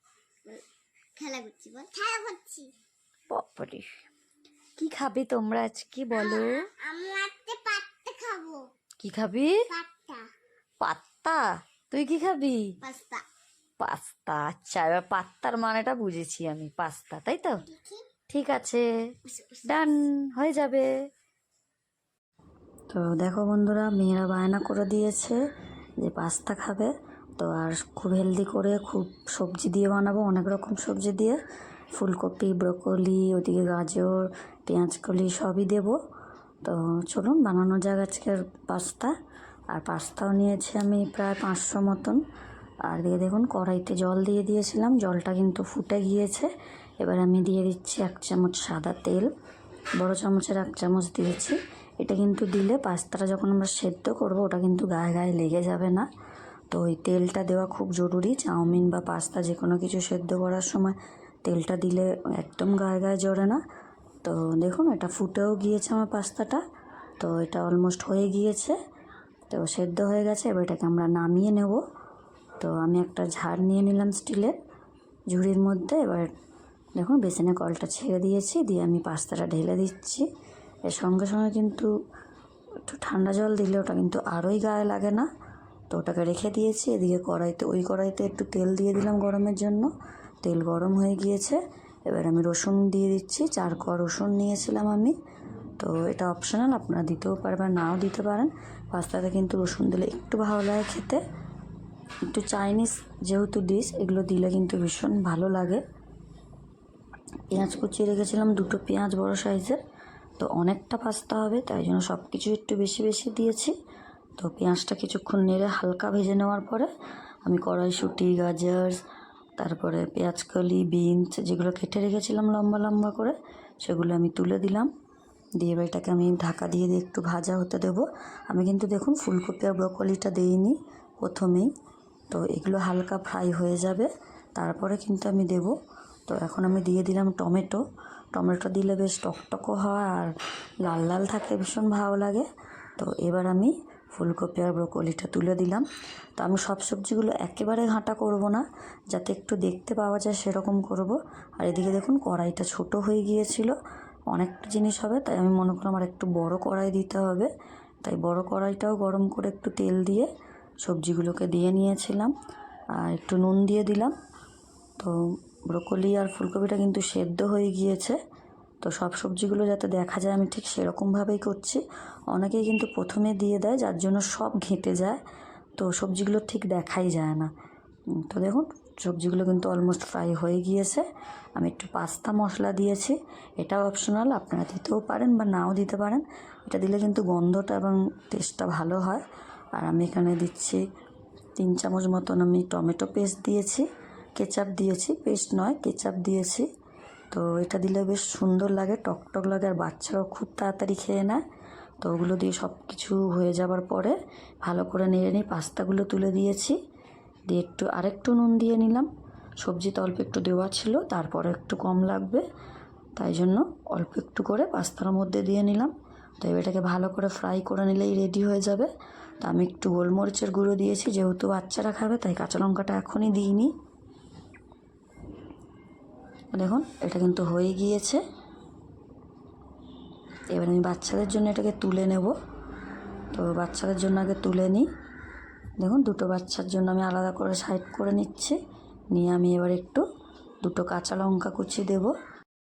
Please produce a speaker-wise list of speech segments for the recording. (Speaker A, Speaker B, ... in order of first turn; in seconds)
Speaker A: 1.1-2.7, 6.1-8.7, 9.7-10.3, 12.8-13.2, 17.6-18.1, 19.3-19.9
Speaker B: 3.3-3.9, 4.8-6.7, 9.0-9.6, 10.8-12.8, 13.8-17.6, 18.3-18.9, 19.6-20.9, 22.9-25.4, 26.0-31.4, 31.9-35.9, 36.6-39.1, 39.7-42.2, 42.9-46.5, 47.0-49.3, 50.0-56.1, 56.7-63.6, 64.2-66.6, 67.2-68.7, 69.5-71.8, 72.6-74.5, 75.3-76.3, 77.0-80.2, 80.9-81.9, 82.8-85.3, 85.9-89.9, 90.4-95.1, 95.8-101.2, 102.3-105.8, 107.5-109.8, 110.4-113.7, 114.4-116.9, 117.5-119.0, 119.6-124.9, 125.6-131.7, 132.3-135.7, 136.3-137.8, 138.3-140.3, 140.8-145.8, 146.4-153.7, 154.3-157.5, 158.0-160.3, 160.8-162.3, 163.0-164.1, 165.7-168.2, 168.8-171.8, 172.3-175.2, 175.8-177.5, 178.2-189.2, 189.8-190.8, 191.6-196.7, 197.3-201.4, 202.0-206.8, 207.5-209.1, 209.6-212.4, 213.2-218.9, 219.4-223.7, 226.5-228.2, 230.5-232.3, 233.3-234.9, 235.8-238.6, 239.1-240.0, 240.6-242.1